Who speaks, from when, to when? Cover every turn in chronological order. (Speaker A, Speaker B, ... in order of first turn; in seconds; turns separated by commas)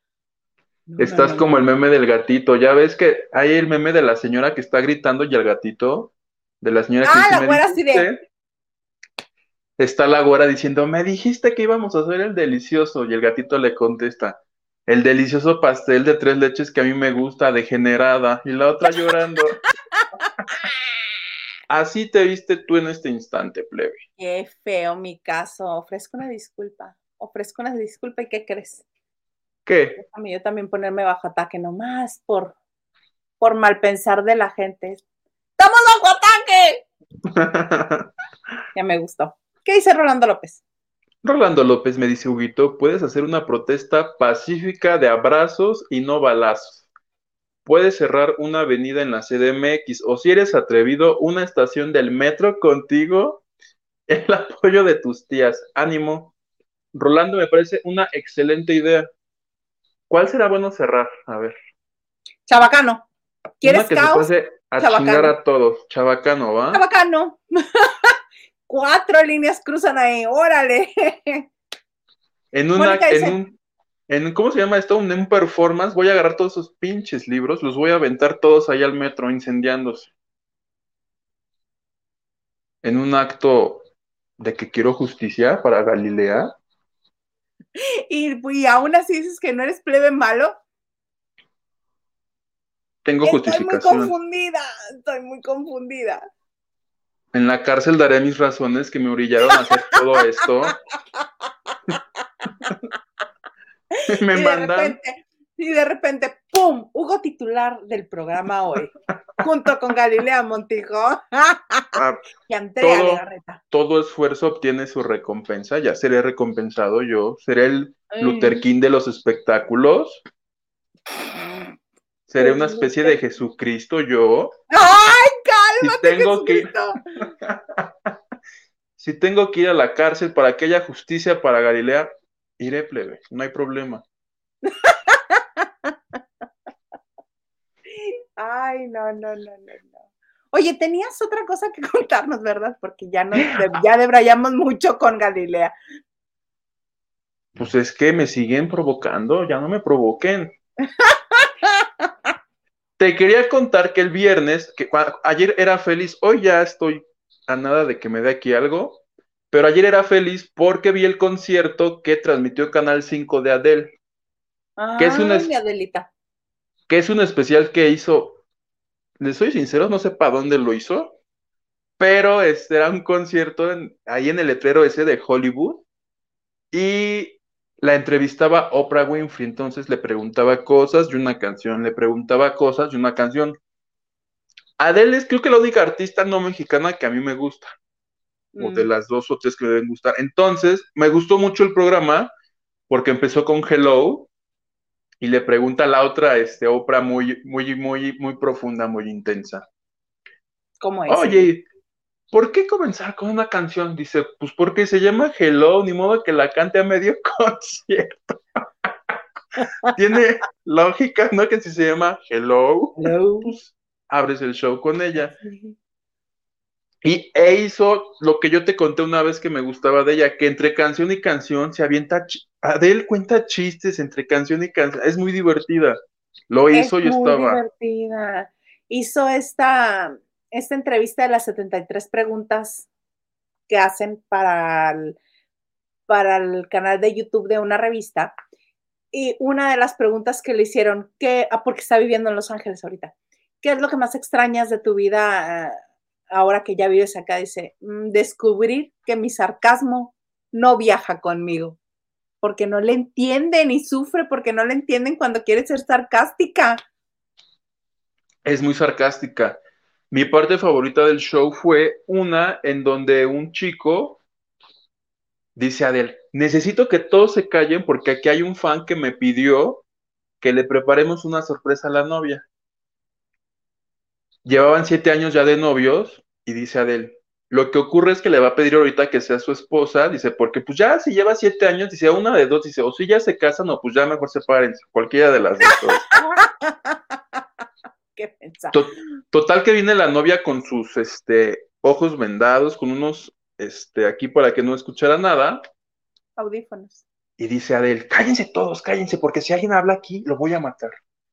Speaker A: 0.9-1.5, Speaker B: 1.0-8.2, Speaker A: 7.0-8.1, Speaker B: 9.8-19.6, Speaker B: 21.7-24.0, Speaker A: 24.2-28.8, Speaker B: 29.6-30.0, Speaker A: 30.0-32.5, Speaker A: 33.4-35.0, Speaker A: 35.6-36.8, Speaker B: 37.3-38.1, Speaker A: 38.7-40.6, Speaker B: 41.2-46.9, Speaker B: 47.6-53.4, Speaker B: 54.1-56.3, Speaker B: 56.9-59.1, Speaker B: 60.1-61.5, Speaker A: 62.5-63.0, Speaker A: 63.6-65.3, Speaker B: 63.6-66.8, Speaker A: 66.7-68.1, Speaker A: 68.7-71.4, Speaker B: 72.5-73.6, Speaker A: 72.8-73.4, Speaker B: 74.1-80.1, Speaker B: 82.8-83.9, Speaker B: 84.4-86.5, Speaker A: 88.1-90.6, Speaker B: 93.0-94.1, Speaker A: 93.2-96.2, Speaker B: 97.3-100.8, Speaker A: 101.2-102.7, Speaker A: 104.0-112.0, Speaker B: 104.1-105.0, Speaker B: 111.9-112.2, Speaker A: 112.5-113.6, Speaker B: 112.8-120.2, Speaker A: 118.1-118.6, Speaker A: 121.3-121.7, Speaker B: 122.3-124.5, Speaker A: 122.4-123.2, Speaker A: 124.7-127.0, Speaker B: 125.8-128.1, Speaker B: 129.0-134.0, Speaker A: 134.6-135.9, Speaker A: 137.9-140.0, Speaker A: 140.5-145.7, Speaker B: 147.6-150.5, Speaker A: 151.0-151.8, Speaker B: 153.0-163.9, Speaker A: 164.8-166.1, Speaker B: 165.0-165.5, Speaker B: 166.9-168.4, Speaker B: 169.2-171.1, Speaker B: 172.0-175.8, Speaker B: 176.7-183.6, Speaker B: 184.8-187.7, Speaker A: 188.5-188.9, Speaker B: 188.6-192.3, Speaker B: 192.9-194.3, Speaker B: 195.2-199.7, Speaker A: 200.8-201.5, Speaker B: 201.1-201.6, Speaker B: 202.3-209.1, Speaker B: 209.9-215.3, Speaker A: 212.9-213.5, Speaker A: 215.4-215.7, Speaker B: 217.0-226.0, Speaker B: 226.5-227.6, Speaker A: 226.7-232.9, Speaker A: 233.7-235.2, Speaker A: 236.1-238.3, Speaker A: 239.1-245.8, Speaker A: 246.3-251.8, Speaker A: 252.4-256.8, Speaker B: 258.4-259.6, Speaker B: 260.1-264.2, Speaker B: 265.6-269.8, Speaker B: 270.4-272.4, Speaker B: 274.4-286.1, Speaker A: 285.7-287.4, Speaker A: 288.1-288.8, Speaker B: 288.7-295.6, Speaker A: 296.4-297.0, Speaker B: 297.4-301.0